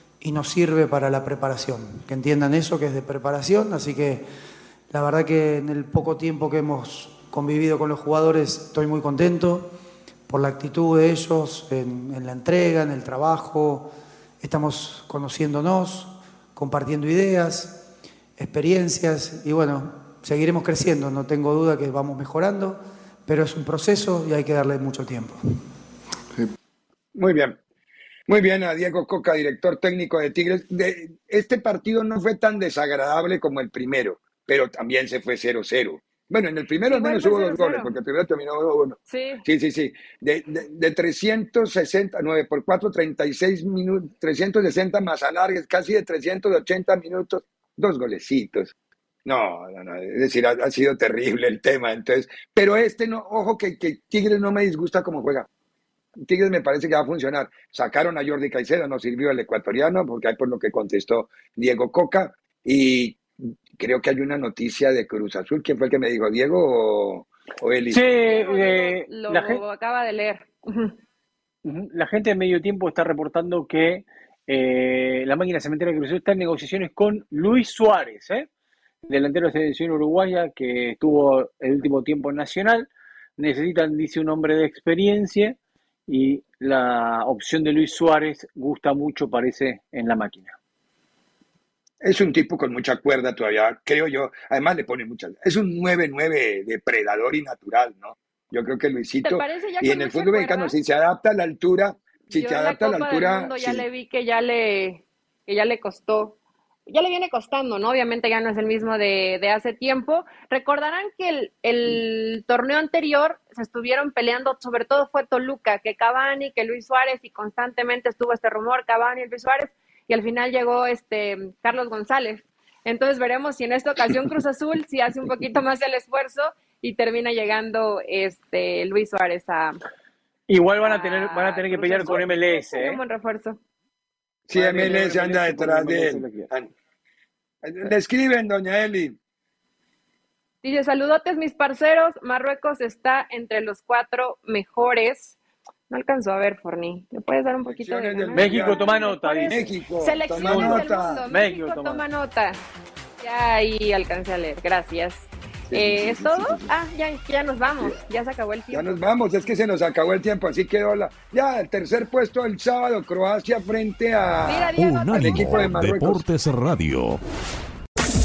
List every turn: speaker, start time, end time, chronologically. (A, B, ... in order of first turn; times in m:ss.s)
0:00.2-0:04.2 A
0:04.9-0:09.7 A
0:10.3-0:17.8 A
0:18.4-0:25.4 A
0:27.1-0:27.6 B
0:28.3-0:48.7 B
0:36.8-0:37.9 C
0:39.1-0:39.4 C
0:49.2-0:55.5 B
0:56.2-1:08.0 B
1:07.9-1:09.6 D
1:08.3-1:10.9 C
1:11.6-1:18.5 D
1:19.0-1:25.6 D
1:26.1-1:30.6 D
1:32.0-1:43.8 B
1:39.2-1:40.7 C
1:42.3-1:46.3 C
1:46.9-2:09.8 C
2:10.5-2:13.0 D
2:10.8-2:13.6 C
2:14.5-2:16.7 B
2:14.5-2:16.5 D
2:17.6-2:19.2 B
2:20.6-2:25.4 C
2:25.9-2:32.6 C
2:27.6-2:28.8 B
2:28.3-2:29.7 D
2:29.5-2:31.2 B
2:30.3-2:32.0 D
2:33.2-2:38.9 C
2:35.7-2:36.7 B
2:38.7-2:46.2 B
2:44.4-2:45.6 C
2:44.8-2:47.2 E